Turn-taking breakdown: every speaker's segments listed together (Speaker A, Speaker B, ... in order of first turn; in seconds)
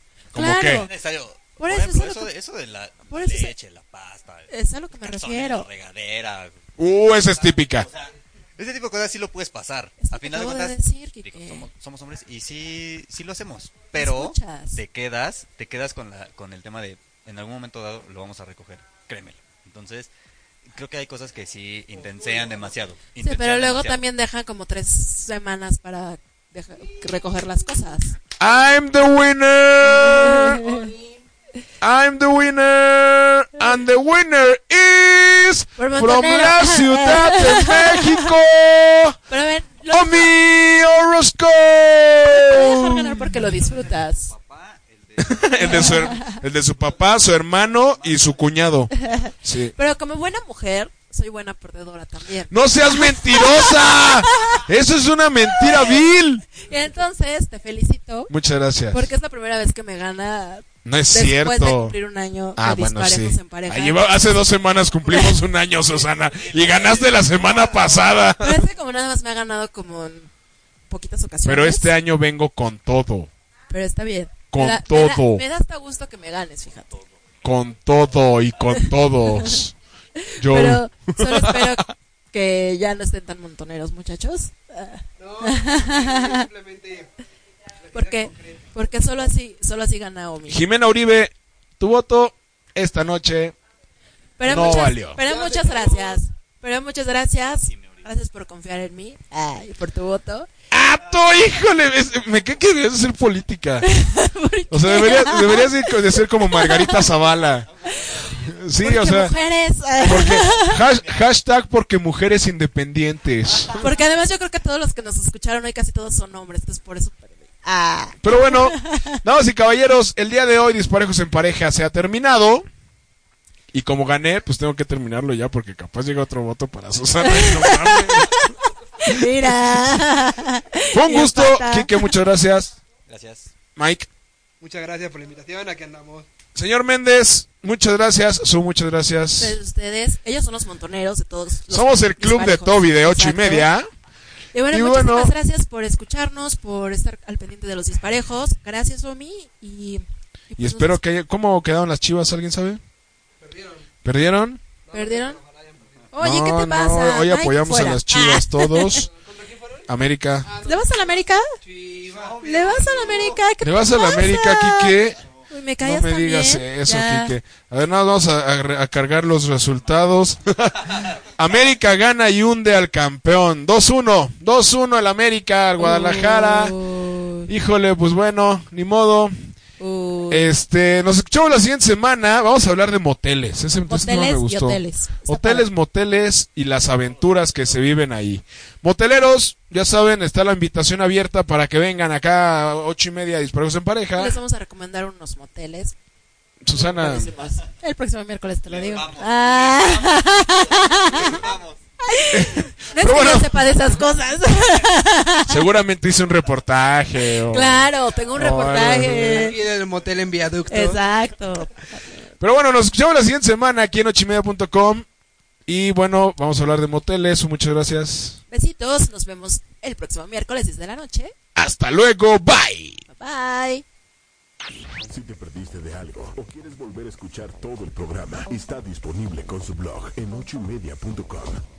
Speaker A: 0.3-0.9, 6.8-7.9, 28.4-30.6, 31.8-39.2, 39.9-43.4, 45.2-48.9, 49.4-49.7, 52.5-56.5, 58.3-59.1, 60.9-62.0, 62.6-68.6, 71.5-73.3, 74.5-75.4, 77.4-79.8, 80.4-81.8, 90.5-93.5, 94.5-95.2, 100.7-103.9, 104.7-107.7, 108.4-109.3, 110.0-113.8, 118.2-122.7, 123.7-128.4, 129.1-129.5, 130.9-132.7, 133.8-134.1, 136.6-139.6, 141.7-143.9, 144.7-145.3, 150.6-152.8, 154.0-154.6, 156.2-159.1, 159.9-160.5, 163.6-165.2, 165.8-176.8, 177.5-179.3, 180.3-194.4, 196.6-197.3, 202.3-203.6, 205.5-209.5, 212.4-215.1, 215.7-218.4, 221.6-223.0
Speaker B: 0.3-0.9, 1.6-2.3, 3.1-3.5, 4.5-5.7, 10.0-11.7, 13.9-14.8, 23.2-28.2, 30.0-30.9, 35.8-38.3, 39.3-40.3, 42.4-44.3, 45.7-46.4, 48.9-54.7, 55.5-56.0, 56.6-58.3, 58.9-64.5, 65.0-65.4, 68.4-70.3, 70.9-71.9, 73.7-77.0, 80.2-86.5, 87.9-90.6, 94.4-100.5, 103.8-107.0, 107.9-110.8, 113.8-119.2, 127.2-132.1, 139.4-143.7, 144.5-151.0, 154.9-155.4, 156.1-159.1, 160.7-161.5, 162.4-165.0, 165.5-167.3, 175.8-177.5, 179.8-180.5, 183.9-185.7, 194.2-195.9, 196.7-201.5, 202.0-205.6, 207.4-209.6, 210.7-212.1, 218.5-221.3, 223.1-223.8
Speaker C: 0.6-6.6, 7.8-20.1, 20.7-24.0, 44.3-46.1, 46.8-47.1, 47.7-48.4, 49.0-49.3, 66.4-68.0, 97.7-98.1, 107.9-108.3, 133.1-133.5, 162.1-163.4, 198.7-201.8
Speaker D: 21.9-22.8, 30.6-31.2, 85.2-87.1, 87.8-88.9, 94.5-96.2, 134.6-136.3, 153.4-153.9, 154.9-156.2, 159.1-159.9, 160.4-163.4, 209.1-211.0
Speaker E: 225.0-231.6